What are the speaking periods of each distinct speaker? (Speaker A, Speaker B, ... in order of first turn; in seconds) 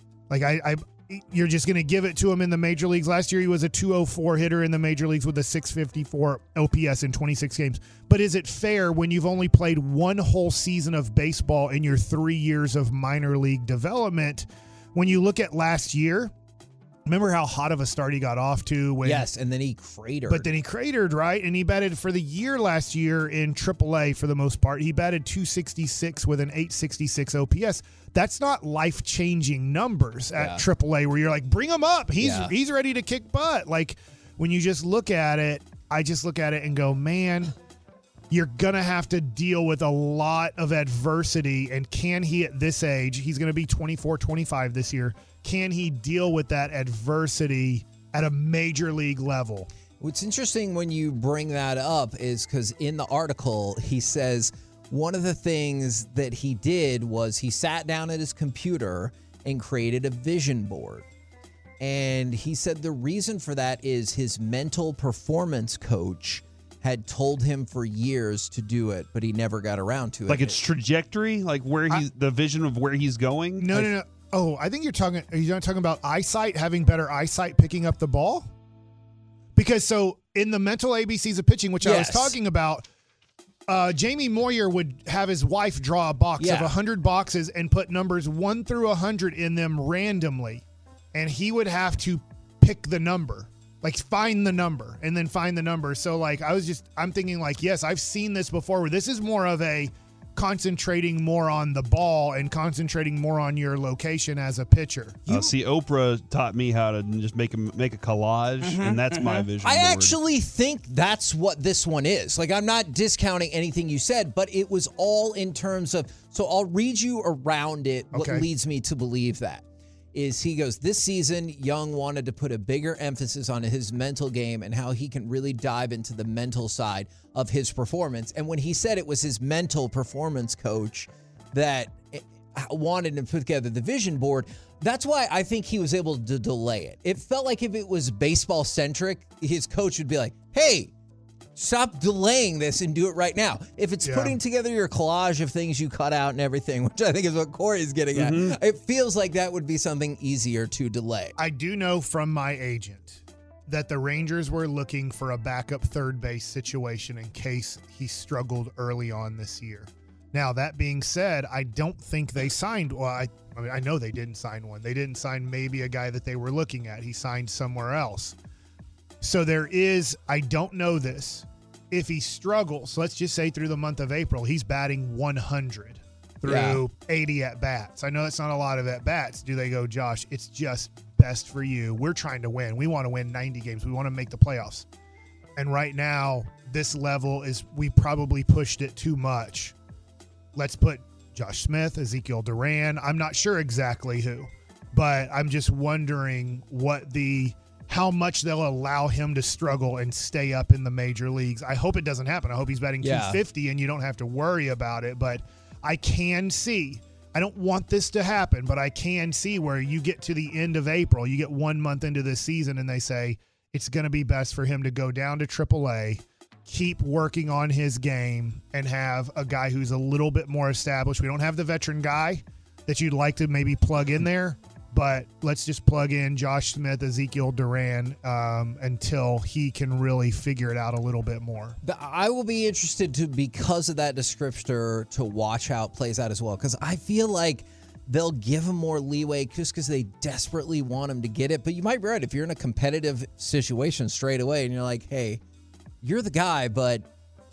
Speaker A: 0.3-16.3, 17.1-19.3, 20.3-37.5, 38.3-49.7, 73.6-78.5, 79.5-82.8, 83.7-105.3, 118.1-118.5, 144.0-144.4, 151.4-168.3, 169.2-184.8, 185.6-189.7, 190.5-231.8
Speaker B: 19.0-20.5, 30.3-30.6, 32.2-32.5, 50.0-61.1, 61.8-70.6, 81.8-82.3, 86.4-86.7, 108.7-140.9, 141.6-151.3, 176.4-176.8, 203.0-203.4, 231.8-245.4, 246.0-247.1
Speaker C: 70.3-73.8, 105.3-110.2, 148.1-148.6